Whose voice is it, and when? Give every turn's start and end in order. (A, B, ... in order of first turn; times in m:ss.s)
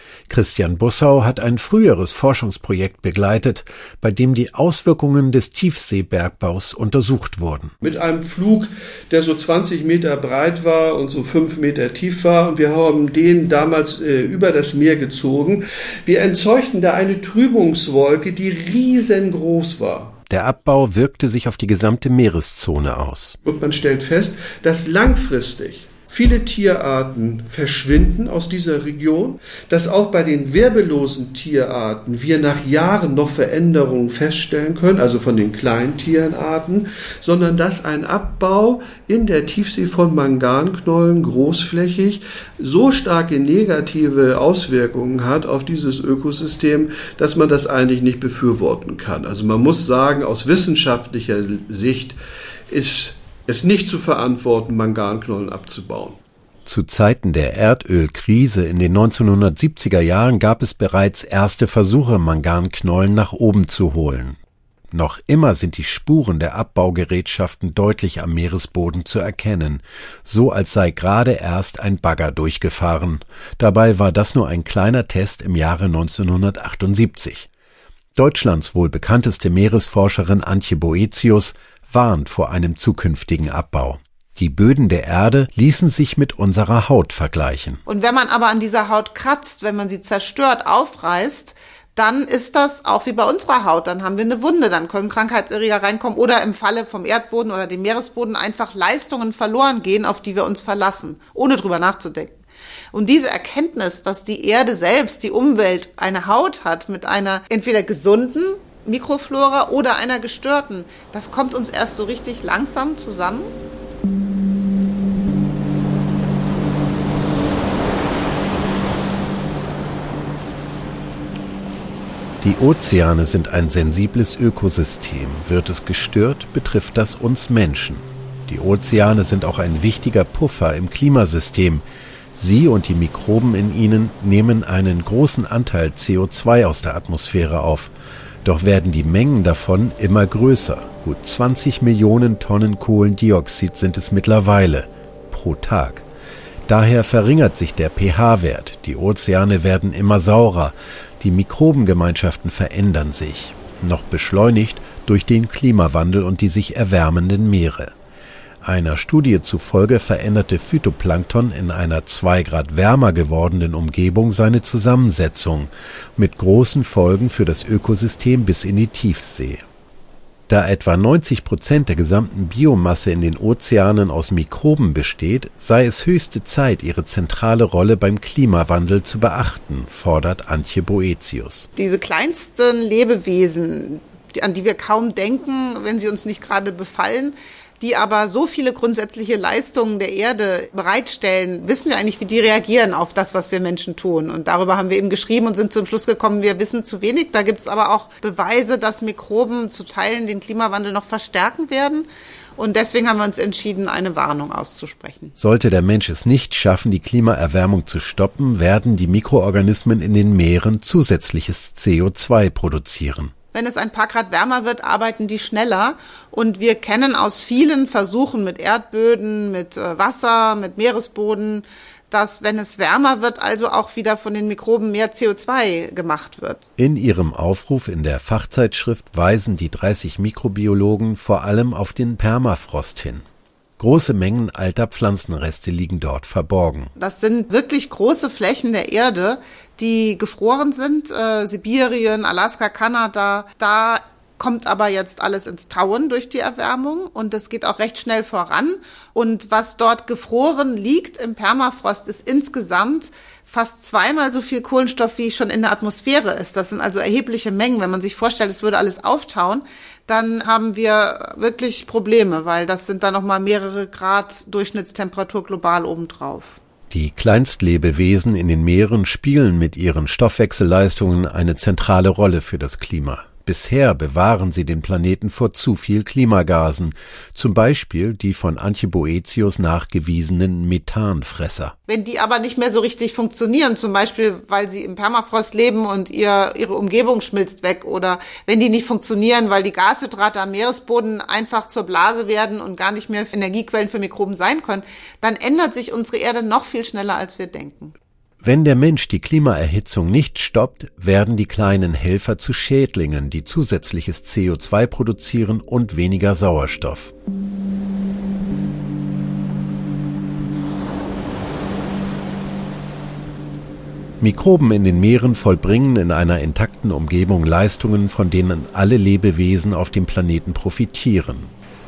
0:00.3-0:07.7 A
0:07.8-0:20.2 B
0:20.3-0:23.4 A
0:23.4-0:52.2 B
0:52.7-0:56.2 B
0:56.6-1:04.4 A
1:04.9-1:17.5 A
1:18.1-1:27.8 A
1:27.9-1:42.4 C
1:42.9-1:53.5 C
2:02.4-2:11.8 A
2:12.4-2:17.9 A
2:18.4-2:26.0 A
2:26.7-2:37.9 A
2:38.6-2:49.6 A
2:50.5-3:01.7 A
3:01.8-3:25.3 C
3:25.4-3:33.3 A
3:33.5-3:46.6 C
3:46.8-3:53.2 A
3:53.8-3:56.9 A
3:57.0-4:26.6 C
4:26.9-4:41.7 A
4:41.9-4:57.9 C
4:58.4-5:07.1 A
5:14.2-5:21.5 A